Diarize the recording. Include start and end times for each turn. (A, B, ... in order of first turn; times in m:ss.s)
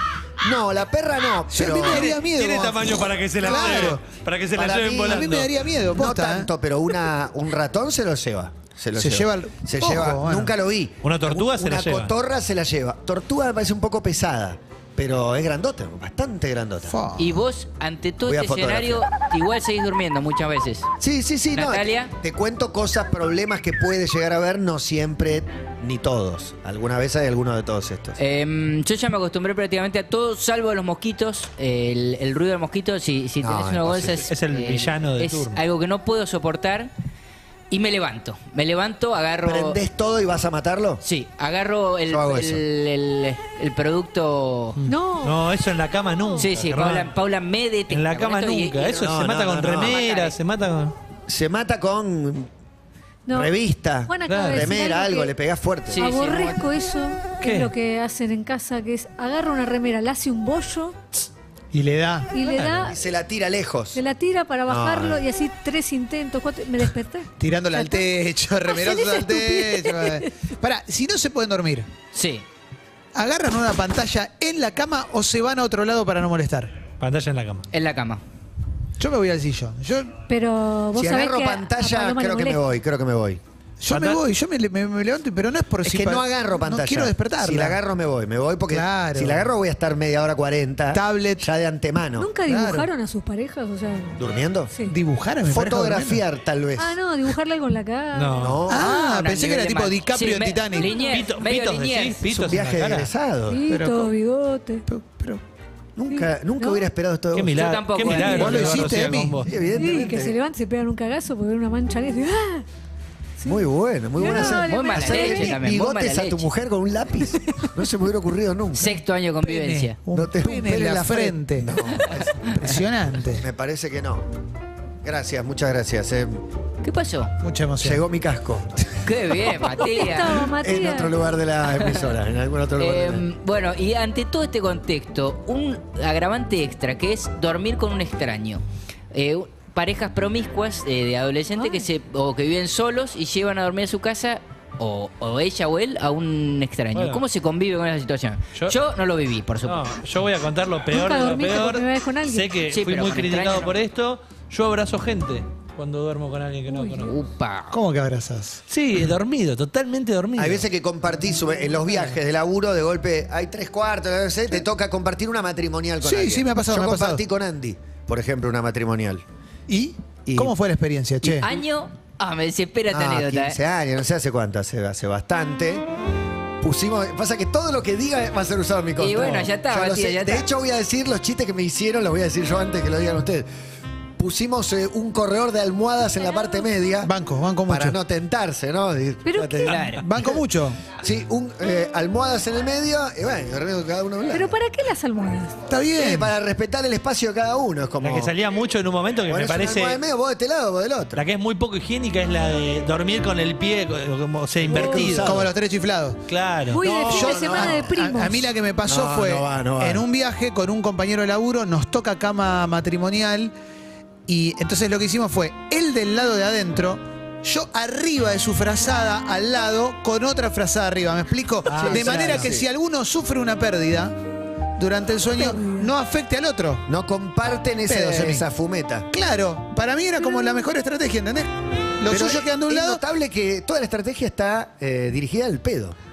0:00.4-0:02.1 A
0:01.5-0:04.0 B
0:01.7-0:05.6 C
0:04.5-0:16.9 A
0:05.1-0:06.5 B
0:08.9-0:10.5 B
0:11.0-0:12.1 C
0:16.9-0:17.4 B
0:17.2-0:20.9 D
0:18.2-0:19.1 A
0:21.0-0:28.2 A
0:21.5-0:22.1 D
0:28.2-0:36.9 D
0:33.4-0:34.2 A
0:34.2-0:35.6 C
0:37.7-0:39.8 D
0:39.4-0:41.0 A
0:41.0-0:44.8 D
0:42.1-0:42.6 A
0:44.8-0:47.1 C
0:44.9-0:45.4 E
0:46.4-0:49.2 D
0:47.9-0:51.0 C
0:49.0-0:50.0 A
0:49.8-0:50.4 D
0:51.3-0:52.5 A
0:53.3-0:53.6 E
0:53.3-0:56.0 A
0:54.1-0:55.3 E
0:54.3-0:54.8 C
0:55.9-0:56.7 D
0:56.0-1:01.0 E
0:57.4-0:57.7 C
1:01.7-1:02.4 B
1:02.3-1:03.0 E
1:02.5-1:03.0 C
1:02.9-1:04.0 A
1:03.9-1:08.1 E
1:04.7-1:05.2 A
1:07.4-1:11.9 B
1:08.6-1:10.3 E
1:12.1-1:12.4 D
1:13.2-1:16.7 B
1:17.0-1:17.7 C
1:17.7-1:18.2 D
1:19.0-1:20.2 B
1:20.3-1:22.6 E
1:21.0-1:23.4 A
1:23.8-1:27.8 B
1:23.9-1:24.2 C
1:25.8-1:32.3 A
1:28.7-1:29.5 B
1:30.9-1:31.5 B
1:32.2-1:34.2 E
1:32.4-1:32.9 B
1:34.2-1:34.7 A
1:34.8-1:36.2 B
1:35.5-1:37.0 A
1:36.8-1:38.5 E
1:38.1-1:38.6 C
1:38.4-1:38.9 A
1:38.7-1:41.0 B
1:38.7-1:42.2 D
1:40.8-1:41.2 E
1:41.1-1:43.1 C
1:42.3-1:43.7 A
1:43.5-1:44.8 E
1:43.7-1:44.2 B
1:44.9-1:45.4 B
1:46.0-1:47.6 A
1:46.1-1:46.8 E
1:47.3-1:49.5 C
1:47.5-1:49.1 D
1:48.2-1:49.5 B
1:49.4-1:50.4 A
1:49.6-1:52.7 E
1:53.4-1:53.6 E
1:53.5-1:59.0 A
1:54.2-1:55.6 E
1:54.2-1:56.5 D
1:58.8-2:00.0 D
1:59.4-2:01.7 B
2:00.1-2:02.5 A
2:02.4-2:03.4 B
2:03.4-2:04.2 A
2:05.0-2:06.4 A
2:06.8-2:07.3 D
2:07.4-2:08.0 B
2:07.8-2:09.0 A
2:09.0-2:10.4 D
2:09.7-2:11.1 E
2:10.5-2:13.2 A
2:11.8-2:12.1 D
2:12.8-2:29.8 D
2:21.5-2:21.9 E
2:27.0-2:27.2 C
2:29.6-2:37.1 C
2:30.9-2:32.6 E
2:32.7-2:33.8 D
2:36.7-2:37.0 E
2:37.0-2:37.8 D
2:37.7-2:38.6 B
2:38.7-2:40.7 C
2:40.4-2:49.2 A
2:41.9-2:42.2 C
2:46.0-2:47.2 B
2:49.7-2:51.5 B
2:50.3-2:50.6 A
2:51.4-2:53.6 D
2:52.9-2:55.9 A
2:56.6-3:03.5 A
2:59.0-3:00.5 D
3:04.2-3:07.1 A
3:07.0-3:08.0 B
3:07.7-3:09.8 A
3:09.3-3:09.7 E
3:09.6-3:10.0 D
3:09.9-3:10.8 B
3:11.0-3:14.6 A
3:14.3-3:15.6 E
3:15.7-3:16.3 B
3:16.0-3:18.3 A
3:18.0-3:20.0 C
3:19.3-3:21.2 A
3:21.2-3:25.3 C
3:24.6-3:25.5 A
3:24.8-3:26.2 B
3:26.3-3:26.8 C
3:26.7-3:28.5 E
3:26.8-3:27.9 A
3:27.0-3:33.5 B
3:28.8-3:30.0 A
3:34.3-3:44.2 B
3:41.6-3:42.7 A
3:41.7-3:42.5 C
3:44.8-3:46.8 B
3:45.3-3:45.9 E
3:46.9-3:49.1 A
3:47.9-3:48.4 B
3:49.1-3:53.0 B
3:52.1-3:56.0 A